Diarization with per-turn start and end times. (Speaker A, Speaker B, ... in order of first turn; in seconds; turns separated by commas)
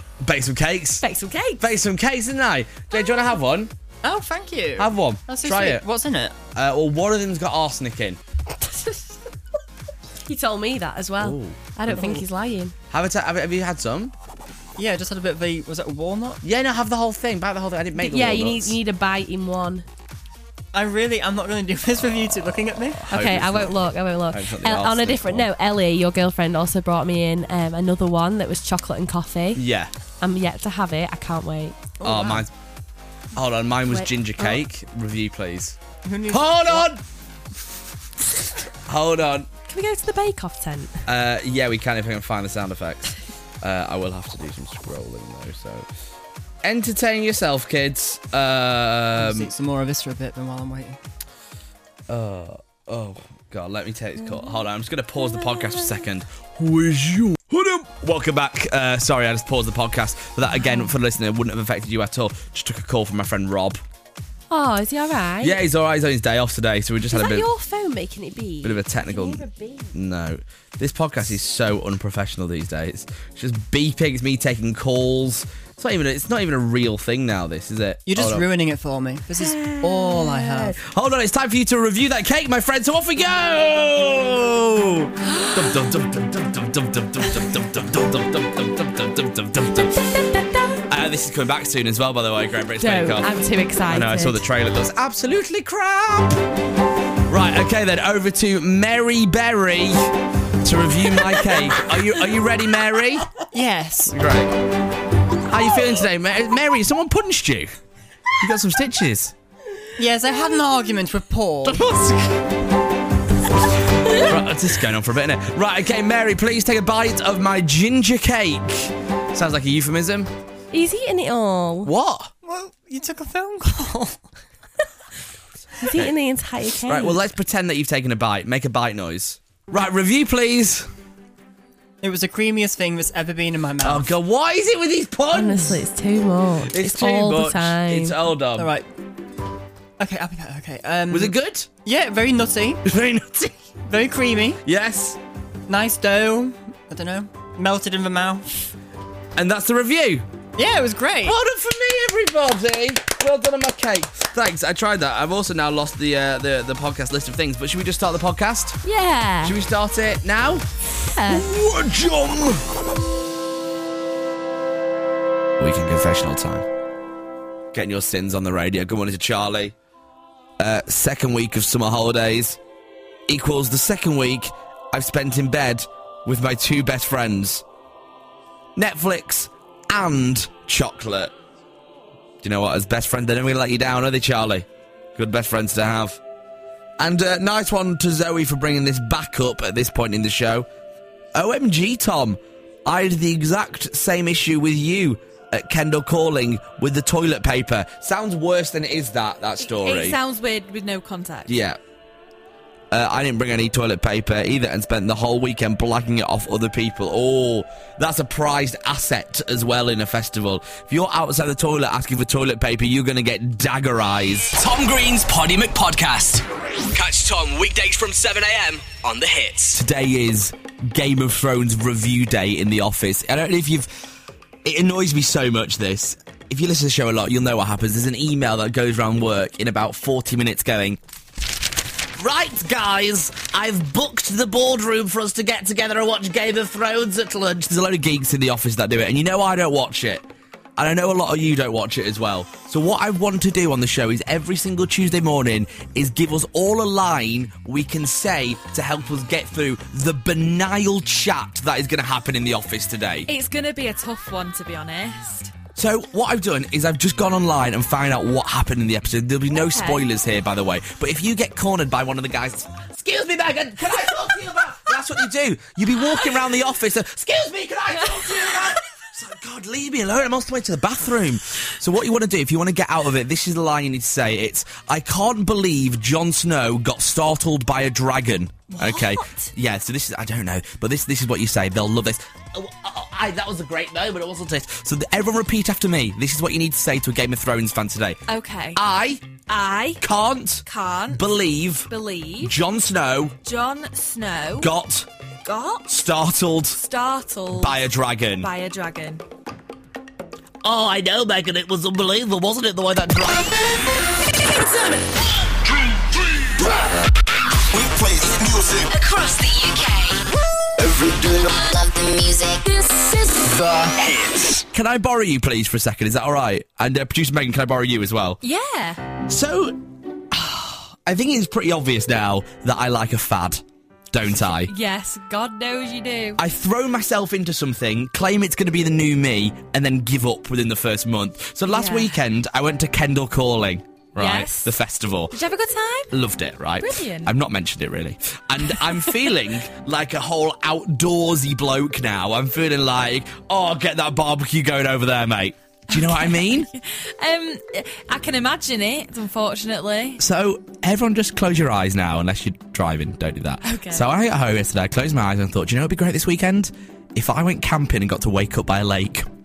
Speaker A: 0.2-1.1, Speaker B: 1.0-1.6, Speaker A: 1.6-3.7, Speaker C: 4.0-6.3, Speaker A: 4.8-5.8, Speaker A: 6.5-8.2, Speaker B: 8.6-9.2, Speaker B: 10.2-12.7, Speaker A: 11.2-12.1, Speaker C: 11.9-12.2, Speaker A: 12.9-14.1, Speaker C: 14.8-16.4, Speaker A: 16.4-18.8, Speaker B: 18.0-19.8, Speaker C: 20.7-23.1, Speaker A: 22.9-25.5, Speaker B: 23.1-29.6, Speaker A: 29.5-29.9, Speaker B: 30.2-31.8, Speaker C: 32.0-32.5, Speaker A: 32.0-32.5, Speaker A: 33.3-35.8, Speaker B: 33.9-34.6, Speaker C: 36.0-36.9, Speaker A: 36.3-37.0, Speaker A: 38.9-39.5, Speaker B: 39.7-41.0, Speaker A: 41.0-45.9, Speaker A: 46.6-49.5, Speaker C: 49.2-51.0, Speaker A: 52.1-63.8, Speaker B: 60.6-60.9, Speaker B: 64.5-65.6, Speaker A: 65.4-67.5, Speaker B: 67.1-69.9, Speaker A: 68.6-78.5, Speaker C: 78.1-80.8, Speaker A: 79.4-90.1, Speaker B: 90.0-90.8, Speaker A: 90.9-93.3, Speaker B: 92.8-94.4, Speaker A: 93.9-96.4, Speaker A: 97.3-103.3, Speaker C: 103.5-104.1, Speaker A: 104.1-104.5, Speaker A: 105.5-107.8, Speaker A: 108.4-109.3, Speaker C: 110.0-111.8, Speaker A: 111.6-112.4, Speaker A: 114.1-120.3, Speaker B: 120.7-121.9, Speaker A: 121.8-122.3, Speaker C: 122.4-124.2, Speaker B: 125.8-127.2, Speaker A: 126.8-130.9, Speaker C: 132.0-134.1, Speaker A: 133.8-135.8, Speaker B: 135.3-138.2, Speaker A: 136.6-138.7, Speaker C: 138.6-138.9, Speaker C: 140.0-142.8, Speaker A: 141.1-141.7, Speaker A: 142.8-143.6, Speaker C: 143.9-144.6, Speaker A: 144.6-145.2, Speaker C: 145.7-148.7, Speaker A: 149.3-150.3, Speaker C: 150.6-151.3, Speaker A: 151.2-158.8, Speaker B: 158.8-159.6, Speaker A: 159.4-160.7, Speaker B: 161.0-161.5, Speaker A: 161.2-162.7, Speaker A: 165.6-166.7, Speaker A: 167.7-169.7, Speaker A: 170.6-172.6, Speaker A: 173.3-177.6, Speaker A: 178.8-181.3, Speaker A: 182.4-186.2, Speaker A: 187.0-190.7, Speaker A: 191.3-200.2, Speaker D: 199.6-201.5, Speaker A: 201.5-201.8, Speaker A: 202.9-214.6, Speaker E: 214.5-219.8, Speaker A: 219.7-223.9, Speaker A: 224.6-231.0, Speaker A: 232.2-240.2, Speaker A: 240.8-253.3, Speaker D: 253.3-255.5, Speaker A: 255.7-288.2, Speaker D: 259.5-260.0, Speaker D: 278.7-279.5, Speaker D: 288.3-288.8, Speaker A: 288.7-289.4, Speaker D: 289.5-290.0, Speaker A: 290.0-293.4, Speaker D: 290.6-291.2, Speaker D: 291.9-292.6, Speaker D: 293.4-294.7, Speaker A: 294.6-295.1, Speaker D: 295.4-295.9, Speaker A: 295.9-296.8, Speaker D: 296.7-297.8, Speaker A: 297.5-298.5, Speaker D: 298.4-299.2, Speaker A: 300.6-303.7, Speaker F: 304.7-305.1, Speaker G: 306.6-306.9, Speaker G: 307.7-308.9, Speaker F: 308.9-310.2, Speaker G: 310.8-311.6, Speaker F: 311.5-313.6, Speaker G: 313.5-314.0, Speaker A: 314.6-318.4, Speaker D: 318.4-319.0, Speaker A: 319.3-324.7, Speaker D: 324.4-326.4, Speaker A: 326.4-335.4, Speaker D: 331.7-332.1, Speaker D: 334.1-334.8, Speaker D: 335.3-336.1, Speaker A: 336.1-346.7, Speaker D: 336.8-337.3, Speaker D: 345.9-350.2, Speaker A: 350.2-359.2, Speaker D: 353.6-354.1